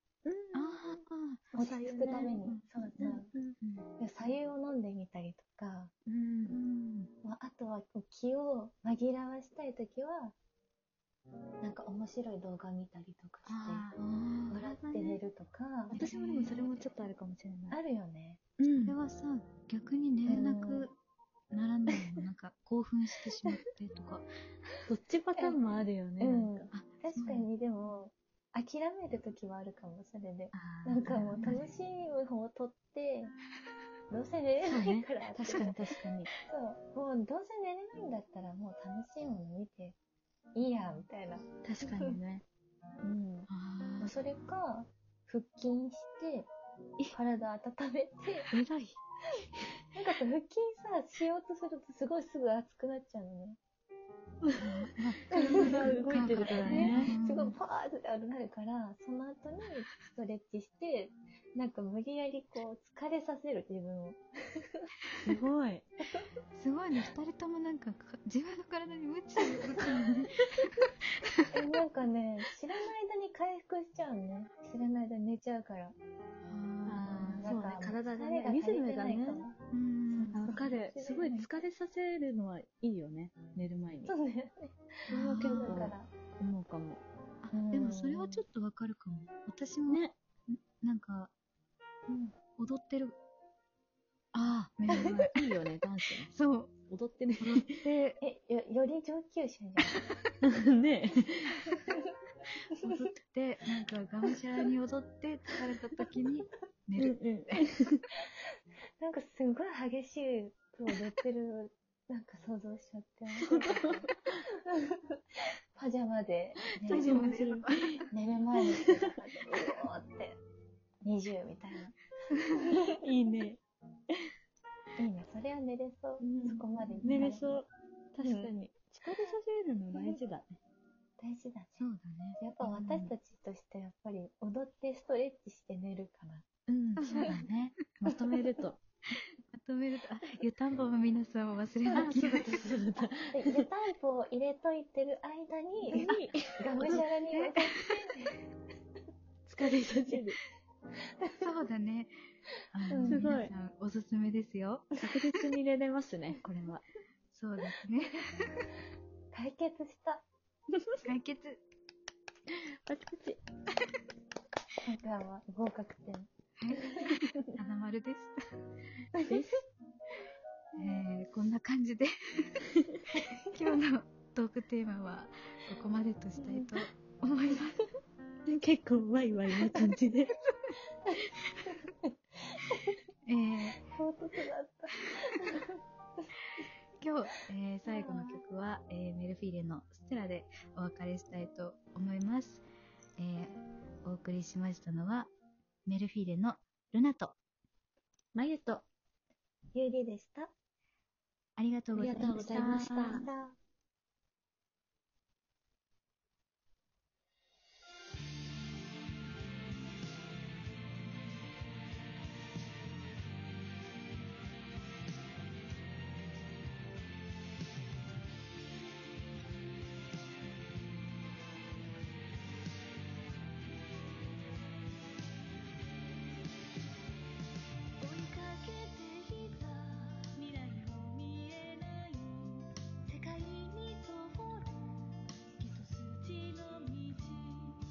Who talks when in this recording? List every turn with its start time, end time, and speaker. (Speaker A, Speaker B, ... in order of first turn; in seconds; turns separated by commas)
Speaker A: 0.2-2.4, Speaker B: 0.5-1.5, Speaker C: 1.6-3.3, Speaker B: 2.2-3.9, Speaker A: 3.0-3.6, Speaker C: 4.0-5.9, Speaker B: 6.1-7.1, Speaker C: 7.2-10.3, Speaker C: 11.6-13.9, Speaker B: 13.5-14.7, Speaker C: 14.5-16.0, Speaker A: 14.7-15.2, Speaker B: 15.9-16.9, Speaker A: 15.9-17.8, Speaker C: 17.7-18.4, Speaker A: 18.6-19.0, Speaker B: 18.8-20.9, Speaker C: 20.3-20.9, Speaker B: 21.5-24.3, Speaker A: 24.9-26.7, Speaker C: 26.2-33.3, Speaker B: 26.7-27.5, Speaker A: 30.5-31.6, Speaker B: 31.0-31.7, Speaker C: 34.1-35.8, Speaker A: 34.6-36.3, Speaker C: 36.4-40.0, Speaker C: 40.5-42.2, Speaker A: 41.6-42.5, Speaker C: 43.0-43.3, Speaker A: 43.1-43.4, Speaker B: 43.5-44.1, Speaker C: 44.0-46.5, Speaker C: 47.1-48.5, Speaker B: 48.5-49.0, Speaker C: 49.4-53.6, Speaker B: 54.6-57.6, Speaker C: 55.3-64.9, Speaker A: 55.4-57.1, Speaker A: 65.3-65.9, Speaker B: 66.5-71.7, Speaker C: 71.5-76.0, Speaker B: 76.5-77.5, Speaker A: 76.9-79.5, Speaker C: 77.4-79.6, Speaker B: 79.7-80.7, Speaker C: 80.1-81.5, Speaker A: 80.3-84.1, Speaker C: 84.1-86.1, Speaker B: 85.1-85.9, Speaker A: 85.1-87.0, Speaker B: 87.4-91.3, Speaker C: 87.5-88.4, Speaker A: 89.9-90.2, Speaker C: 92.1-92.4, Speaker B: 92.6-93.2, Speaker B: 94.3-95.4, Speaker C: 94.9-95.3, Speaker A: 95.3-96.3, Speaker B: 96.3-96.8, Speaker A: 96.9-97.8, Speaker B: 97.4-98.2, Speaker C: 98.2-100.0, Speaker A: 100.4-101.7, Speaker B: 102.8-107.7, Speaker A: 107.0-108.0, Speaker C: 109.0-114.1, Speaker A: 113.4-114.3, Speaker C: 114.7-115.2, Speaker C: 115.8-117.3, Speaker A: 116.8-118.0, Speaker B: 116.9-118.1, Speaker C: 118.1-120.4, Speaker A: 118.6-119.0, Speaker C: 121.0-122.6, Speaker A: 122.7-123.6, Speaker C: 125.0-127.5, Speaker A: 126.2-130.6, Speaker C: 128.2-128.5, Speaker C: 131.2-131.8, Speaker B: 131.8-133.1, Speaker C: 132.4-136.5, Speaker B: 136.7-138.0, Speaker A: 136.9-137.4, Speaker C: 137.0-137.5, Speaker A: 138.0-138.8, Speaker B: 139.5-142.7, Speaker C: 141.9-142.5, Speaker A: 141.9-143.7, Speaker C: 143.3-148.5, Speaker A: 145.9-147.0, Speaker B: 146.8-147.9, Speaker A: 149.5-150.4, Speaker C: 151.2-151.5, Speaker B: 151.4-152.1, Speaker B: 152.7-154.9, Speaker C: 152.9-153.4, Speaker A: 153.1-153.5, Speaker A: 155.0-156.8, Speaker B: 157.3-158.7, Speaker C: 159.3-160.2, Speaker B: 161.0-161.6, Speaker A: 162.5-163.4, Speaker C: 164.8-167.2, Speaker B: 166.6-168.4, Speaker A: 169.2-169.6, Speaker B: 170.8-177.8, Speaker A: 172.8-173.1, Speaker A: 178.4-180.4, Speaker C: 181.7-182.1, Speaker C: 182.7-182.9, Speaker B: 183.3-184.0, Speaker C: 183.8-185.8, Speaker B: 187.0-192.6, Speaker C: 187.9-188.4, Speaker B: 193.2-195.3, Speaker B: 195.9-197.4, Speaker A: 198.3-198.9, Speaker C: 199.7-200.5, Speaker B: 201.6-203.2, Speaker A: 201.9-203.3, Speaker C: 202.2-203.6, Speaker A: 228.0-232.7, Speaker C: 228.6-229.0, Speaker C: 233.1-234.7, Speaker A: 235.6-237.8